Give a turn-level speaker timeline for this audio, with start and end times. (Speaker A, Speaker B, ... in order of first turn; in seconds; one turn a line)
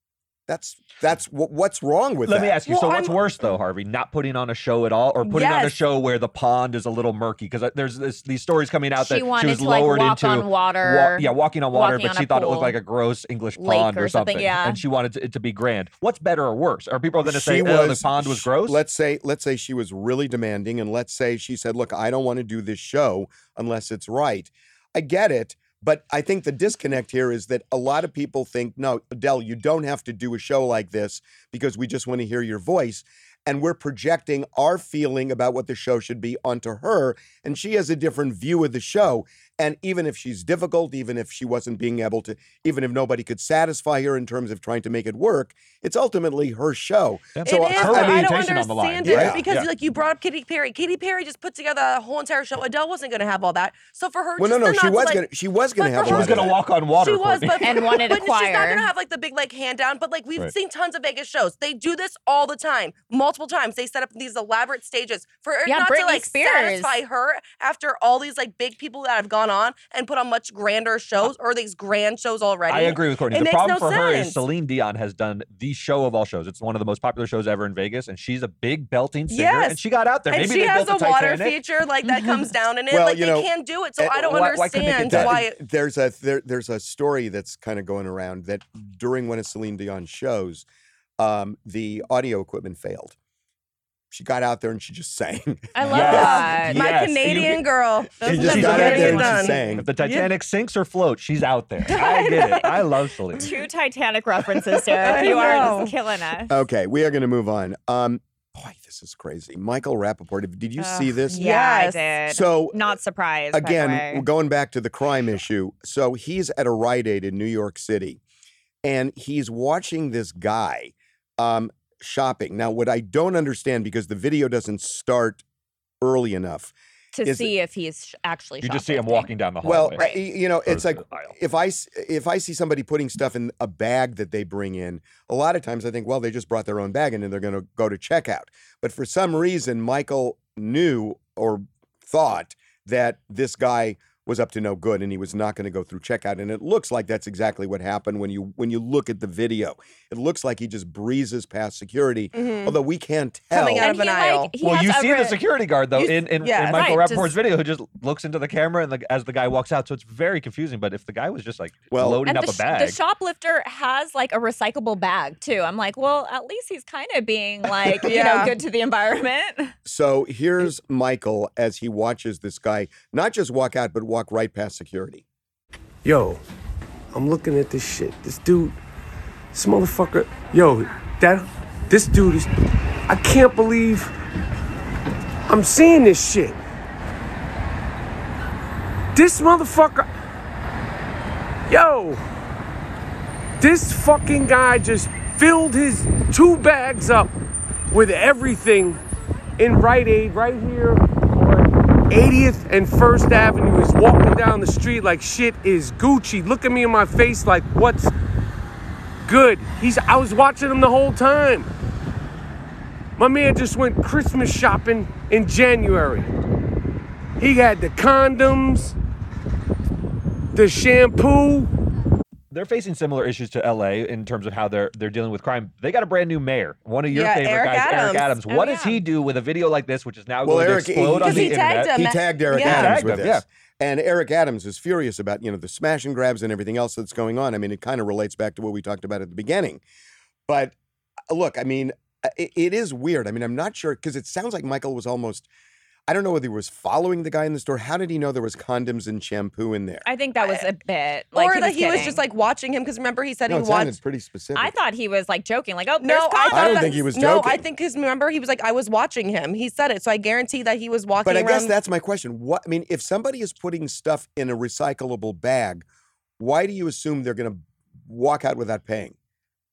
Speaker A: 0.5-2.6
Speaker B: 2.2-18.8
Speaker C: 2.6-3.2
Speaker C: 5.2-5.8
Speaker D: 9.0-12.8
Speaker D: 13.6-14.8
Speaker A: 17.2-48.4
Speaker B: 47.4-49.7
Speaker C: 47.5-55.2
Speaker A: 49.0-49.5
Speaker A: 54.4-56.5
Speaker C: 55.8-74.4
Speaker B: 56.1-57.9
Speaker D: 57.6-58.9
Speaker D: 65.7-66.9
Speaker B: 72.7-81.6
Speaker C: 79.3-85.6
Speaker A: 82.9-90.7
Speaker B: 84.2-85.4
Speaker A: 91.2-93.2
Speaker A: 94.1-96.7
Speaker D: 95.8-96.8
Speaker B: 95.9-97.6
Speaker C: 96.0-100.3
Speaker B: 98.2-103.5
Speaker A: 98.2-99.9
Speaker C: 101.9-102.5
Speaker D: 101.9-102.7
Speaker D: 103.4-106.6
Speaker C: 105.0-105.9
Speaker A: 105.3-105.6
Speaker A: 106.5-111.4
Speaker C: 110.8-112.0
Speaker D: 111.3-114.2
Speaker A: 112.3-112.8
Speaker A: 113.5-118.2
Speaker A: 118.8-125.4
Speaker A: 126.0-126.7
Speaker D: 127.1-129.3
Speaker A: 127.2-127.5
Speaker B: 128.6-130.0
Speaker A: 129.6-153.9
Speaker D: 130.0-130.2
Speaker B: 130.7-131.3
Speaker C: 152.3-152.8
Speaker C: 153.5-154.5
Speaker D: 153.8-155.4
Speaker B: 154.6-163.0
Speaker C: 155.9-156.9
Speaker D: 156.7-157.3
Speaker A: 161.9-162.2
Speaker D: 162.2-169.7
Speaker C: 168.0-168.6
Speaker A: 169.8-175.2
Speaker E: 176.0-176.4
Speaker E: 177.1-178.8
Speaker E: 179.5-182.5
Speaker E: 183.1-184.1
Speaker E: 185.5-186.6
Speaker E: 189.1-190.1
Speaker E: 191.7-192.2
Speaker E: 193.6-197.3
Speaker E: 197.9-199.0
Speaker E: 199.6-208.1
Speaker E: 209.2-211.7
Speaker E: 213.2-216.3
Speaker E: 217.4-218.9
Speaker E: 220.5-221.7
Speaker B: 222.5-233.4
Speaker C: 227.1-228.3
Speaker D: 228.5-229.0
Speaker A: 230.4-239.8
Speaker C: 231.2-233.0
Speaker A: 240.5-240.8
Speaker A: 241.3-245.5
Speaker A: 246.1-250.1
Speaker D: 250.1-252.2
Speaker C: 250.4-250.7
Speaker C: 251.3-254.0
Speaker A: 253.5-254.7
Speaker D: 254.5-257.0
Speaker C: 256.0-261.7
Speaker A: 256.5-257.6
Speaker A: 261.2-265.9
Speaker A: 266.4-269.1